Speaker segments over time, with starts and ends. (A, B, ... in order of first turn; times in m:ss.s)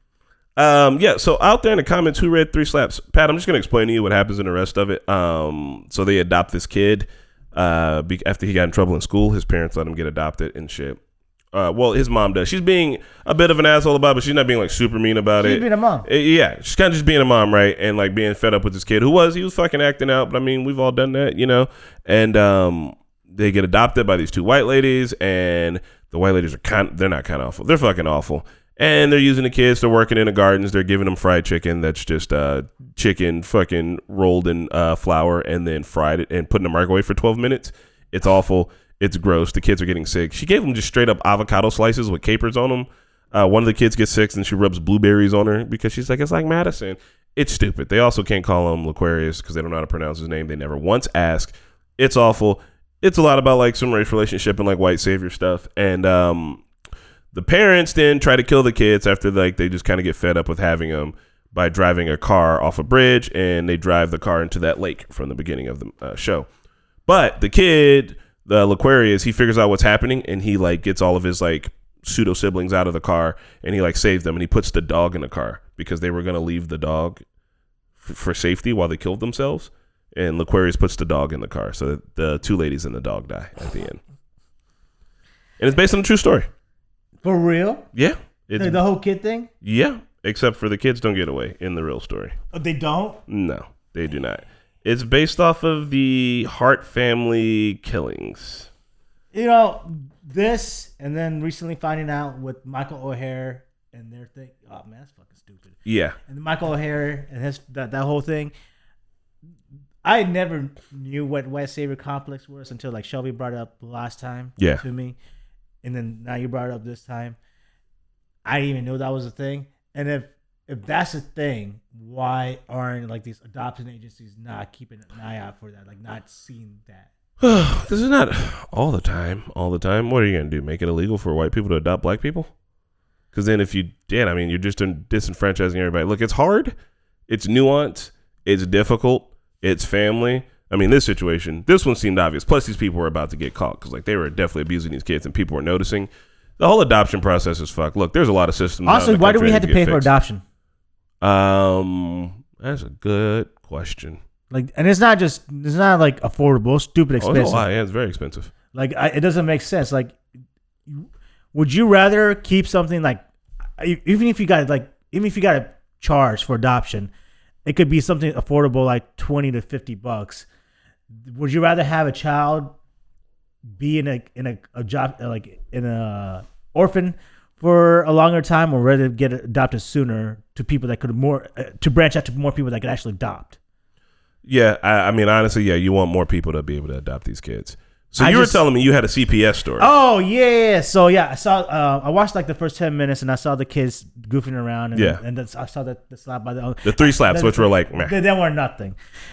0:00.6-0:11.0 A
0:11.5-0:56.6 A
0:15.4-0:16.1 B
0:57.3-1:06.5 A
1:07.1-1:17.2 A
1:18.0-1:24.0 A
1:25.6-1:26.5 A
1:27.2-1:27.8 B
1:27.9-1:28.8 A
1:28.6-1:29.5 B
1:29.6-1:32.3 A
1:32.5-1:33.2 B
1:33.3-1:38.7 A
1:39.3-1:45.7 B
1:45.8-1:46.2 A
1:46.3-1:48.5 B
1:50.0-1:55.2 B
1:55.8-1:57.4 B
1:58.4-2:07.1 B
2:07.4-2:12.5 A
2:13.3-2:16.7 A
2:17.3-2:30.1 A
2:28.8-2:30.4 B
2:31.2-2:34.2 A
2:34.5-2:37.6 B
2:37.2-2:38.5 A
2:38.7-2:40.2 B
2:40.9-2:43.2 B
2:43.8-2:47.1 B
2:47.6-2:50.4 B
2:51.2-2:52.7 B
2:53.8-3:03.6 B
3:04.4-3:09.9 A
3:08.2-3:08.6 B
3:09.8-3:19.0 B
3:14.9-3:15.2 A
3:16.8-3:18.1 A